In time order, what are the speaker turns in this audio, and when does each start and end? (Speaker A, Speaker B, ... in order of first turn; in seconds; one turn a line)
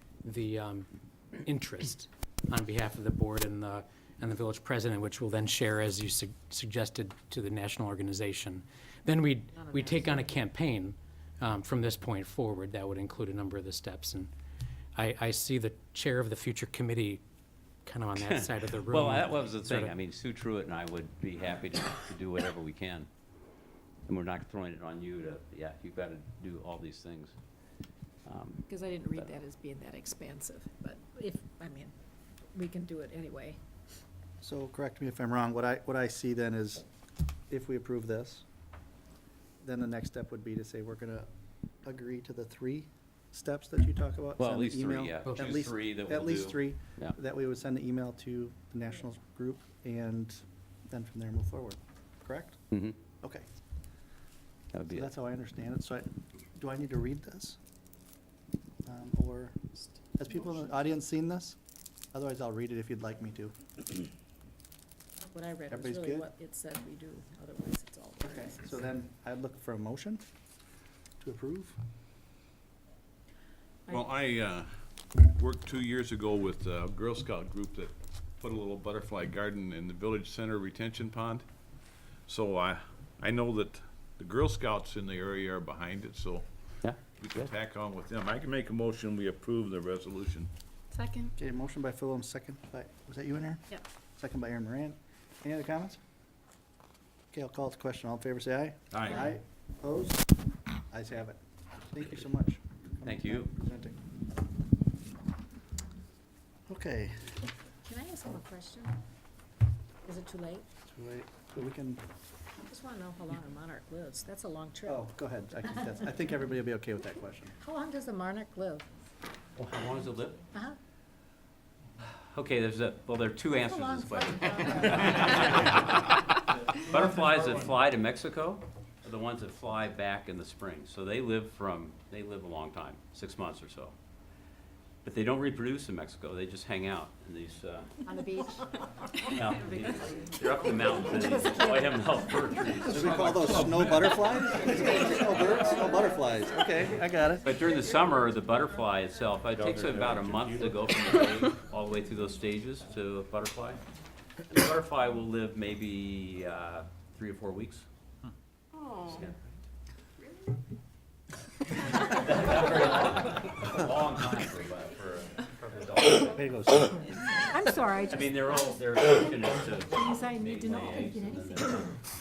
Speaker A: 0.2-0.9
Speaker A: 1.4-14.3
Speaker B: 9.5-10.3
Speaker A: 15.0-17.2
Speaker A: 17.9-20.0
Speaker C: 18.1-23.1
Speaker C: 24.1-27.4
Speaker C: 28.2-29.3
Speaker B: 28.7-31.9
Speaker B: 32.5-33.6
Speaker D: 34.4-36.8
Speaker D: 37.5-38.4
Speaker D: 39.6-41.3
Speaker D: 41.8-52.6
Speaker C: 44.4-47.2
Speaker A: 45.2-45.6
Speaker C: 52.7-53.0
Speaker C: 54.7-55.1
Speaker D: 54.9-57.6
Speaker D: 58.9-59.6
Speaker D: 60.2-61.6
Speaker D: 62.1-63.6
Speaker B: 65.3-68.8
Speaker D: 65.7-66.3
Speaker D: 68.2-70.2
Speaker D: 71.2-71.8
Speaker E: 73.9-74.7
Speaker E: 75.2-81.5
Speaker E: 82.3-86.5
Speaker C: 86.8-87.5
Speaker E: 87.2-90.5
Speaker B: 90.9-91.3
Speaker D: 91.4-93.7
Speaker D: 94.2-96.0
Speaker D: 97.3-100.3
Speaker E: 98.9-99.2
Speaker D: 100.9-101.4
Speaker D: 101.9-104.0
Speaker C: 103.0-103.5
Speaker D: 106.7-107.3
Speaker B: 107.8-109.0
Speaker B: 110.0-110.6
Speaker D: 110.9-112.0
Speaker B: 112.7-115.1
Speaker D: 114.9-117.5
Speaker B: 117.6-118.9
Speaker C: 119.6-120.4
Speaker C: 122.3-126.2
Speaker B: 123.5-125.7
Speaker C: 126.8-133.9
Speaker C: 135.0-138.0
Speaker B: 138.1-138.7
Speaker C: 139.3-143.8
Speaker D: 142.8-147.5
Speaker C: 147.4-153.8
Speaker E: 149.5-150.8
Speaker C: 154.5-157.8
Speaker C: 158.9-159.4
Speaker C: 161.9-167.4
Speaker D: 166.3-167.0
Speaker B: 167.5-168.3
Speaker C: 168.1-172.0
Speaker B: 170.0-171.6